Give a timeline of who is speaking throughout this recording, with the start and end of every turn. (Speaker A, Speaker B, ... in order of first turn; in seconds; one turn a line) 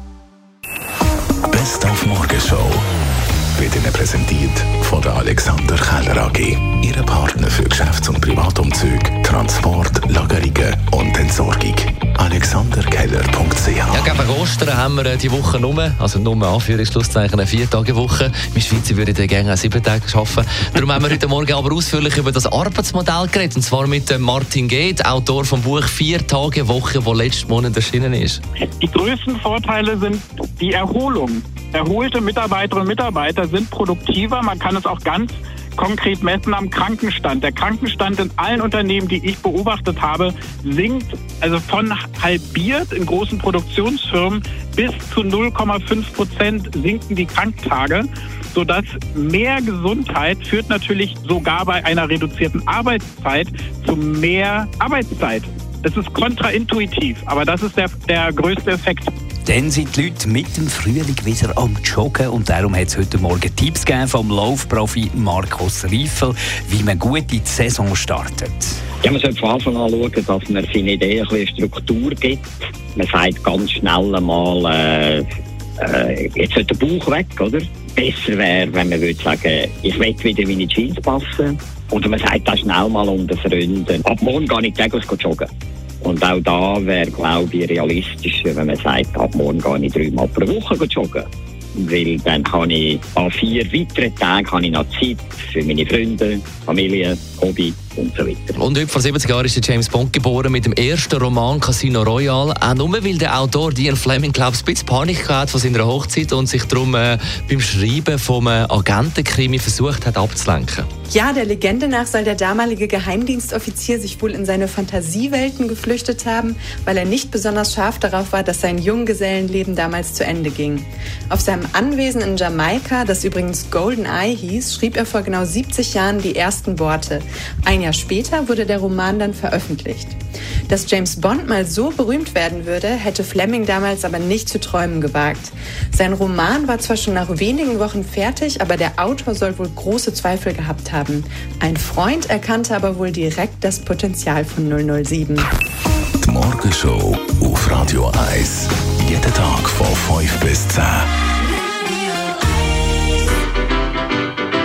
Speaker A: 1.5-2.9
Speaker A: 3.6-14.2
Speaker B: 13.9-28.4
Speaker C: 28.8-59.1
Speaker D: 59.5-68.8
Speaker E: 69.0-75.2
Speaker E: 75.8-85.5
Speaker E: 86.0-98.6
Speaker B: 98.6-110.9
Speaker F: 111.1-130.2
Speaker F: 130.7-145.5
Speaker A: 146.2-151.1